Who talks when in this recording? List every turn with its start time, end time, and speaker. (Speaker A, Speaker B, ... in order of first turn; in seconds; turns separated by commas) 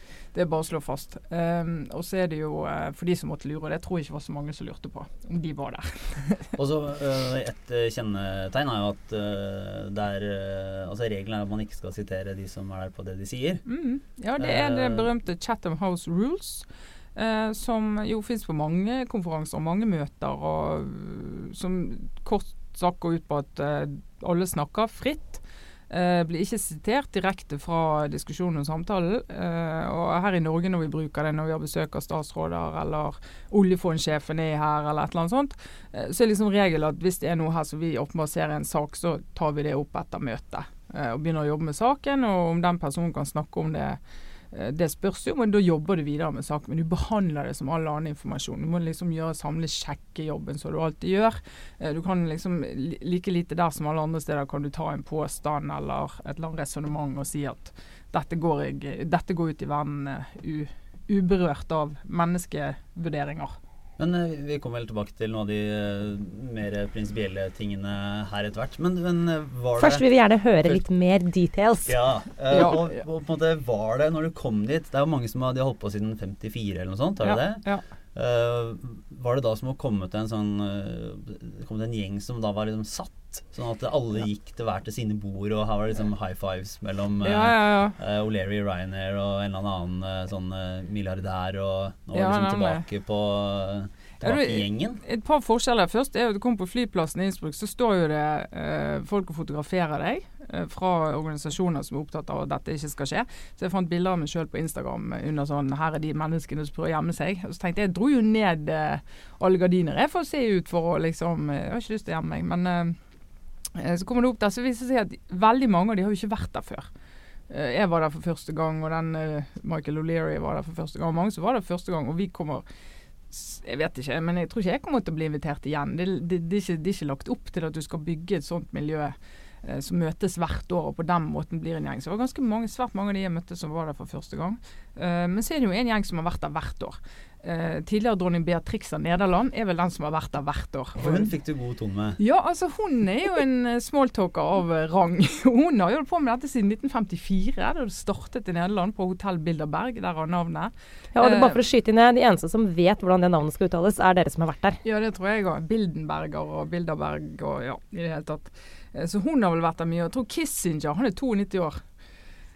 Speaker A: 0.3-6.6, Speaker B: 6.6-13.6, Speaker A: 13.7-44.0, Speaker B: 14.4-15.1, Speaker A: 44.5-63.6, Speaker B: 64.0-70.1, Speaker C: 69.8-72.0, Speaker B: 71.8-77.6, Speaker A: 72.5-73.0, Speaker A: 77.2-77.8, Speaker B: 78.2-95.0, Speaker A: 87.2-88.0, Speaker A: 92.1-92.9, Speaker A: 94.2-113.0, Speaker A: 113.7-116.9, Speaker A: 117.5-122.7, Speaker A: 123.3-141.3, Speaker B: 141.0-142.2, Speaker A: 142.2-151.6, Speaker C: 151.2-154.8, Speaker A: 154.8-161.8